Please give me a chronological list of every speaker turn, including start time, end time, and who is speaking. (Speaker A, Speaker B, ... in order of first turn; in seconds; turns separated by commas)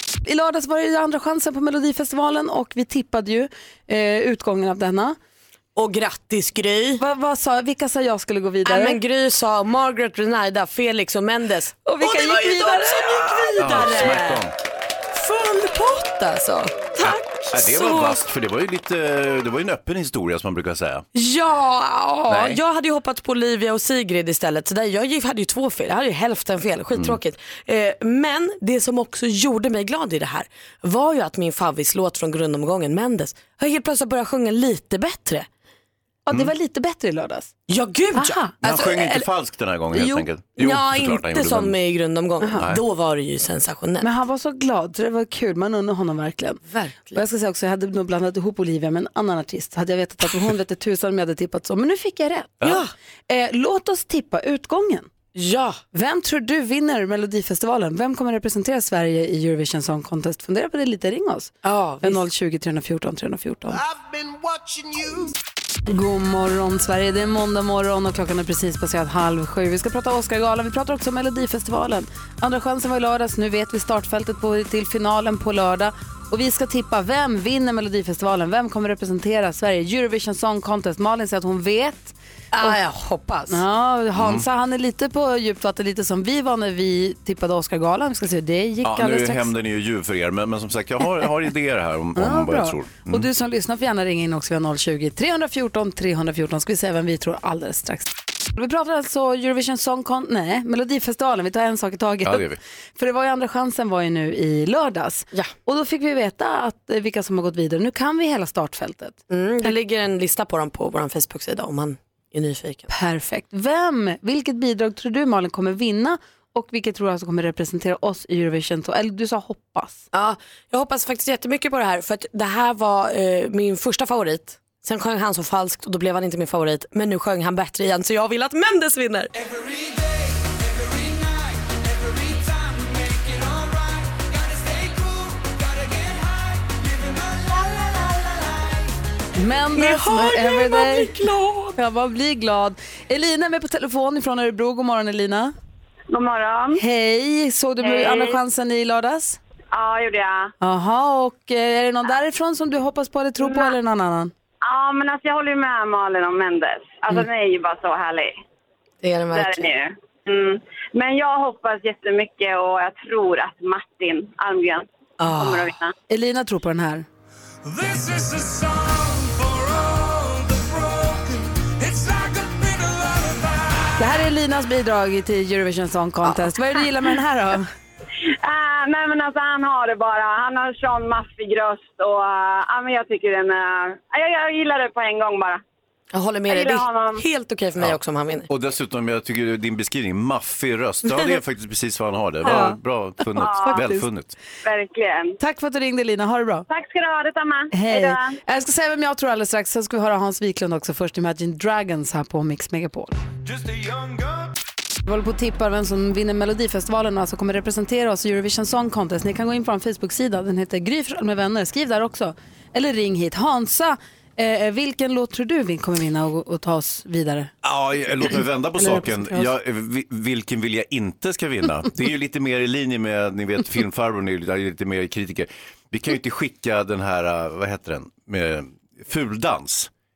Speaker A: 0.2-5.2, Speaker B: 5.8-7.0, Speaker A: 7.0-9.0, Speaker B: 8.6-14.4, Speaker A: 11.8-13.3, Speaker C: 13.5-14.5, Speaker B: 15.1-18.2, Speaker C: 17.0-21.0, Speaker B: 21.1-35.5, Speaker C: 22.3-22.6, Speaker A: 36.2-37.5, Speaker B: 37.7-39.2, Speaker A: 38.1-38.5, Speaker C: 38.6-41.8, Speaker B: 40.6-44.1, Speaker A: 44.0-52.6, Speaker B: 46.7-47.2, Speaker B: 52.6-52.9, Speaker A: 53.3-55.1, Speaker B: 55.3-55.8, Speaker A: 55.9-63.8, Speaker B: 61.6-62.2, Speaker D: 63.7-65.3, Speaker A: 65.9-82.7, Speaker B: 82.5-83.6, Speaker A: 83.5-89.5, Speaker C: 84.1-84.5, Speaker C: 88.8-93.3, Speaker A: 92.2-109.7, Speaker C: 102.2-102.6, Speaker B: 109.3-112.9, Speaker A: 112.9-120.1, Speaker B: 120.1-129.3, Speaker D: 129.4-138.8, Speaker A: 139.3-141.1, Speaker B: 139.8-141.7, Speaker D: 139.8-141.2, Speaker A: 141.8-145.5, Speaker E: 146.1-146.8, Speaker A: 146.8-149.4, Speaker E: 147.8-148.3, Speaker E: 149.7-150.5, Speaker A: 150.6-154.3, Speaker E: 154.6-158.3, Speaker B: 159.0-159.7, Speaker E: 159.3-165.9, Speaker B: 165.2-165.7, Speaker A: 166.1-167.1, Speaker D: 167.6-173.9, Speaker A: 174.0-177.7, Speaker B: 176.2-176.5, Speaker E: 178.4-185.6, Speaker B: 186.1-188.5, Speaker E: 186.5-187.2, Speaker C: 187.8-194.3, Speaker A: 192.4-194.1, Speaker E: 193.4-193.8, Speaker E: 194.6-195.4, Speaker A: 195.4-196.7, Speaker E: 196.7-198.4, Speaker A: 197.7-203.2, Speaker D: 203.5-204.5, Speaker A: 205.1-217.5, Speaker C: 217.6-229.9, Speaker A: 218.8-219.5